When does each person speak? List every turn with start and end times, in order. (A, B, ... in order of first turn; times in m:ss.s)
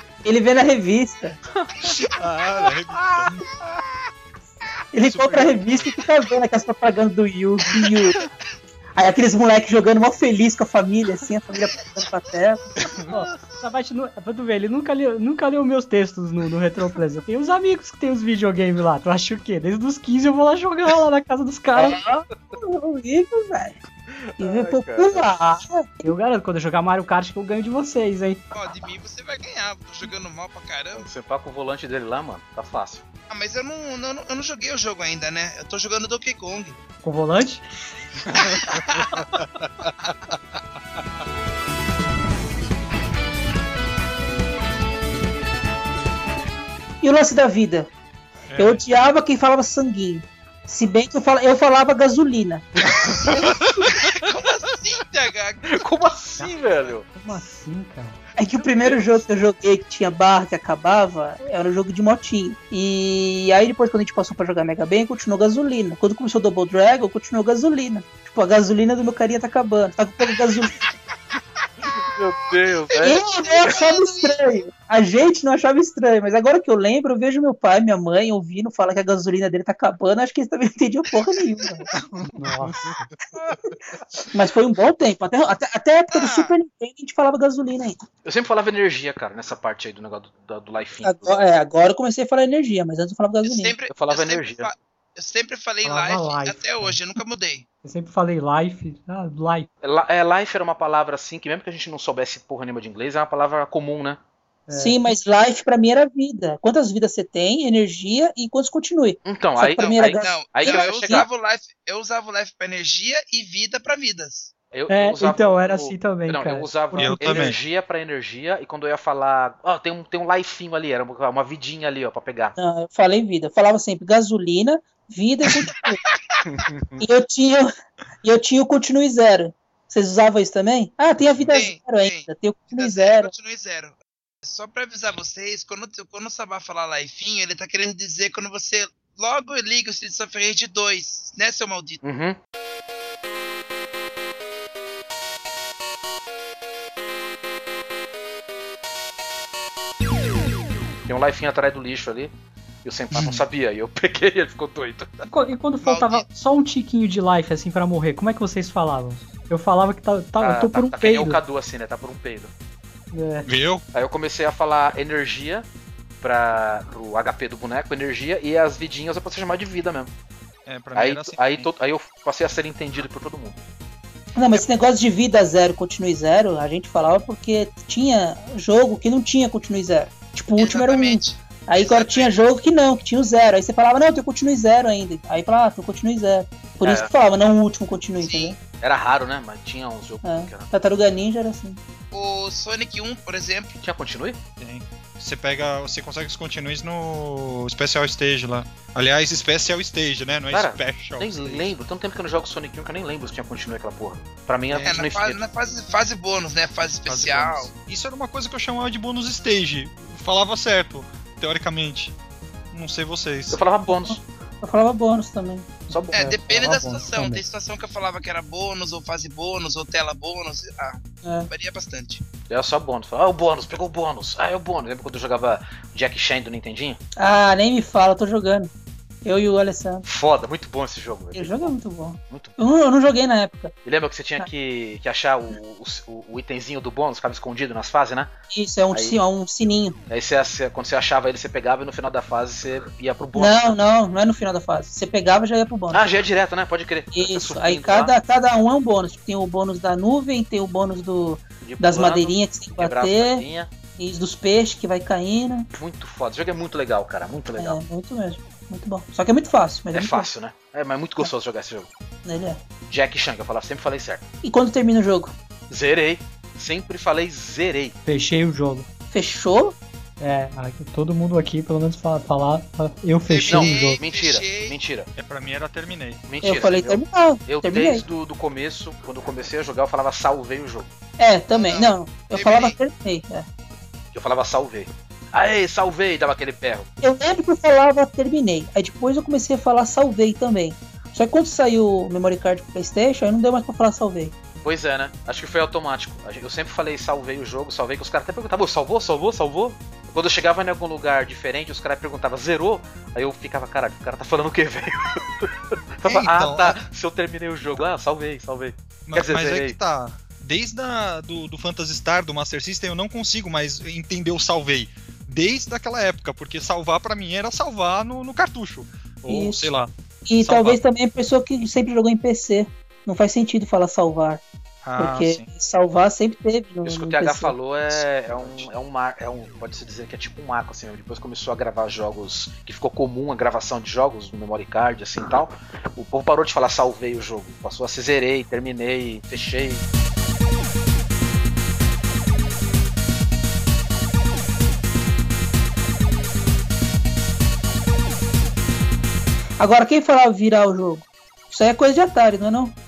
0:00.2-0:01.4 A
0:01.6-0:01.9 B
0:01.8-0:03.4 C
0:04.9-0:08.2 A
0:05.1-0:05.6 C
0:08.9-0:12.7 A
0:13.1-0:22.0 D
0:21.7-0:23.8 A
0:24.1-0:25.3 B
0:24.4-0:25.9 A
0:26.0-0:28.4 D
0:28.5-0:31.1 E
0:30.9-0:33.0 B
0:33.3-0:36.8 E
0:37.0-0:37.6 D
0:38.3-0:40.4 C
0:38.4-0:39.1 E
0:47.0-0:47.9 A
0:48.5-0:48.8 C
0:48.6-0:52.6 A
0:52.8-0:53.4 B
0:52.9-0:54.0 C
0:53.9-0:56.1 E
0:55.7-0:57.1 B
0:57.1-0:58.2 D
0:58.4-1:10.8 A
0:58.8-0:59.2 B
1:11.8-1:13.2 B
1:13.0-1:21.9 A
1:13.4-1:14.3 E
1:22.0-1:23.0 C
1:22.3-1:23.1 D
1:24.3-1:28.0 A
1:26.1-1:26.5 E
1:28.2-1:31.4 B
1:31.0-1:33.7 A
1:33.4-1:37.6 E
1:33.9-1:34.7 B
1:35.8-1:37.0 D
1:37.8-1:39.7 D
1:39.8-1:44.2 B
1:44.7-1:45.0 D
1:44.7-1:51.2 A
1:49.2-1:51.2 B
1:50.2-1:54.5 E
1:54.7-2:02.6 B
1:54.9-1:57.5 D
1:57.0-1:57.6 C
2:02.6-2:06.0 A
2:06.4-2:07.0 B
2:07.0-2:07.7 A
2:08.2-2:13.3 A
2:11.5-2:22.0 E
2:22.0-2:22.4 B
2:31.1-2:32.3 B
2:32.8-2:35.3 B
2:33.1-2:33.4 C
2:35.3-2:41.4 D
2:35.8-2:36.2 E
2:40.4-2:42.5 B
2:43.1-2:43.5 D
2:43.4-2:43.8 C
2:43.9-2:45.7 B
2:46.2-2:50.1 B
2:50.6-2:51.7 C
2:50.9-2:53.6 B
2:54.3-3:08.6 A
3:00.6-3:02.3 E
3:06.8-3:07.1 B
3:08.2-3:08.6 E
3:08.8-3:10.7 B
3:10.2-3:11.8 A
3:12.1-3:13.8 E
3:13.8-3:14.4 B
3:14.6-3:21.7 C
3:20.5-3:25.4 B
3:24.8-3:27.7 E
3:27.1-3:32.1 C
3:32.7-3:33.6 C
3:33.5-3:34.2 B
3:33.9-3:35.8 A
3:35.9-3:36.7 B
3:36.1-3:42.2 E
3:36.1-3:37.4 D
3:41.2-3:41.5 A
3:42.5-3:47.0 B
3:47.2-3:48.7 A
3:49.2-3:50.0 A
3:50.0-3:51.7 B
3:51.3-3:53.7 A
3:52.3-3:52.6 B
3:53.8-3:58.3 B
3:58.5-4:00.0 A
3:58.9-3:59.2 B
4:00.1-4:03.8 B
4:03.3-4:06.0 A
4:05.9-4:08.1 B
4:07.1-4:13.4 A
4:11.6-4:13.7 B
4:14.0-4:15.7 A
4:15.8-4:17.8 B
4:17.6-4:20.3 A
4:19.9-4:21.9 B
4:22.2-4:22.6 A
4:22.9-4:24.2 B
4:24.4-4:25.3 A
4:25.7-4:28.0 B
4:28.0-4:28.9 D
4:29.1-4:29.8 A
4:30.2-4:34.0 D
4:33.3-4:34.8 E
4:33.5-4:35.1 B
4:35.2-4:36.2 C
4:36.3-4:40.9 B
4:36.4-4:38.0 A
4:41.2-4:43.4 A
4:41.5-4:42.8 E
4:44.1-4:46.9 B
4:47.0-4:54.3 A
4:54.6-5:09.8 B
5:06.0-5:06.8 C
5:09.1-5:20.8 C
5:19.3-5:19.7 A
5:20.2-5:24.4 A
5:24.8-5:25.4 C
5:25.0-5:27.5 A
5:26.8-5:39.8 B
5:49.6-5:52.7 A